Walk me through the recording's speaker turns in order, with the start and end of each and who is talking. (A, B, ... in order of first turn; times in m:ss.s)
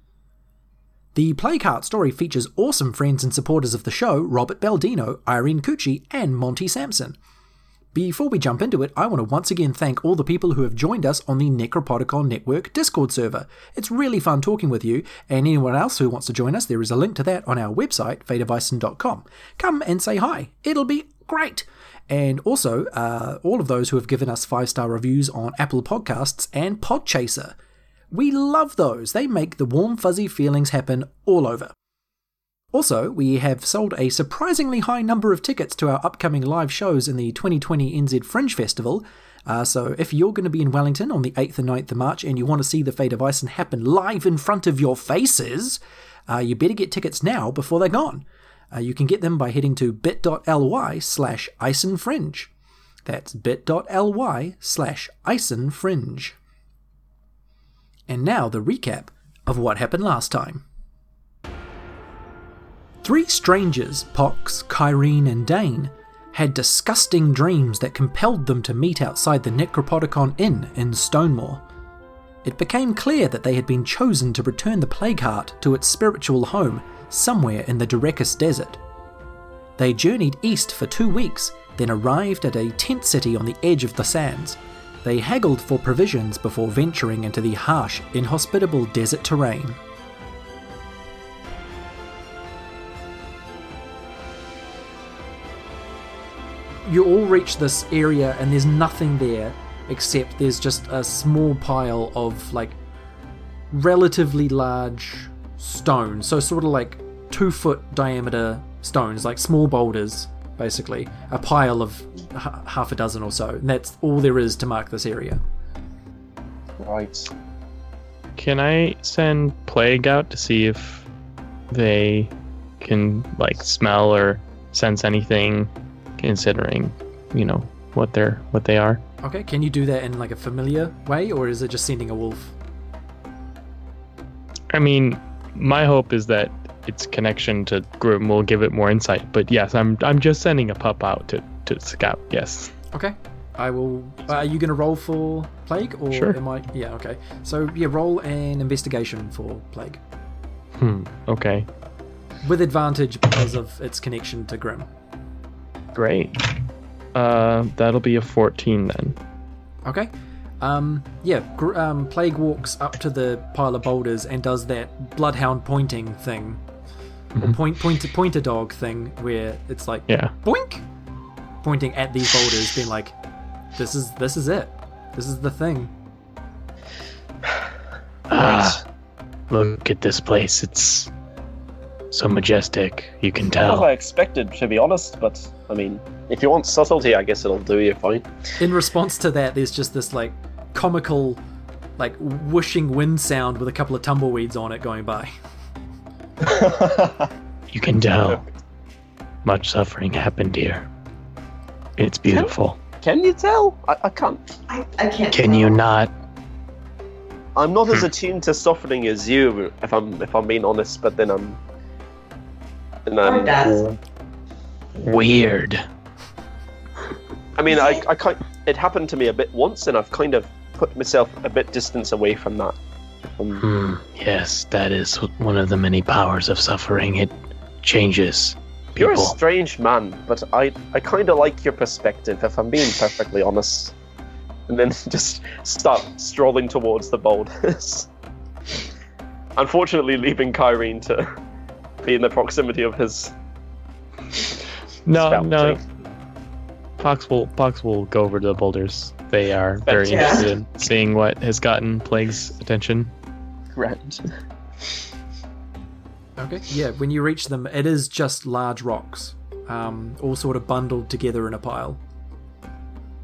0:01.1-0:07.2 A
0:07.9-0:27.6 A
0:28.1-0:31.7 A
0:32.7-0:52.5 A
0:53.0-0:56.4 A
0:58.1-1:00.6 A
1:03.0-1:11.6 A
1:12.4-1:18.8 A
1:19.8-1:29.8 A
1:36.8-1:42.8 A
1:43.7-1:55.4 A
1:56.8-1:57.3 B
1:58.4-2:01.1 C
2:01.7-2:09.0 C
2:09.2-2:12.5 A
2:14.7-2:22.7 C
2:22.9-2:30.0 A
2:30.8-2:31.7 C
2:32.4-2:34.9 A
2:35.9-2:36.4 C
2:37.1-2:39.2 C
2:39.8-2:46.6 A
2:47.4-2:50.8 A
2:51.6-2:53.1 A
2:53.8-2:55.9 A
2:58.3-2:58.8 D
2:58.3-2:58.8 B
2:59.5-3:01.1 D
3:02.1-3:03.9 D
3:03.6-3:08.3 B
3:08.6-3:11.4 A
3:12.0-3:15.3 A
3:16.4-3:17.3 B
3:17.7-3:18.4 D
3:19.4-3:20.8 D
3:22.0-3:22.8 D
3:23.0-3:24.5 B
3:24.7-3:25.8 E
3:25.3-3:26.1 D
3:27.6-3:31.6 B
3:33.1-3:33.6 B
3:33.2-3:33.8 E
3:35.0-3:35.8 D
3:37.6-3:43.6 B
3:37.7-3:38.0 E
3:43.6-3:49.3 D
3:49.0-3:53.9 B
3:54.7-3:58.1 B
3:59.6-4:01.3 B
4:02.0-4:03.3 B
4:05.0-4:05.8 C
4:05.1-4:05.8 B
4:07.0-4:13.1 C
4:09.8-4:10.5 B
4:10.1-4:10.5 E
4:13.7-4:14.2 B
4:16.4-4:22.0 A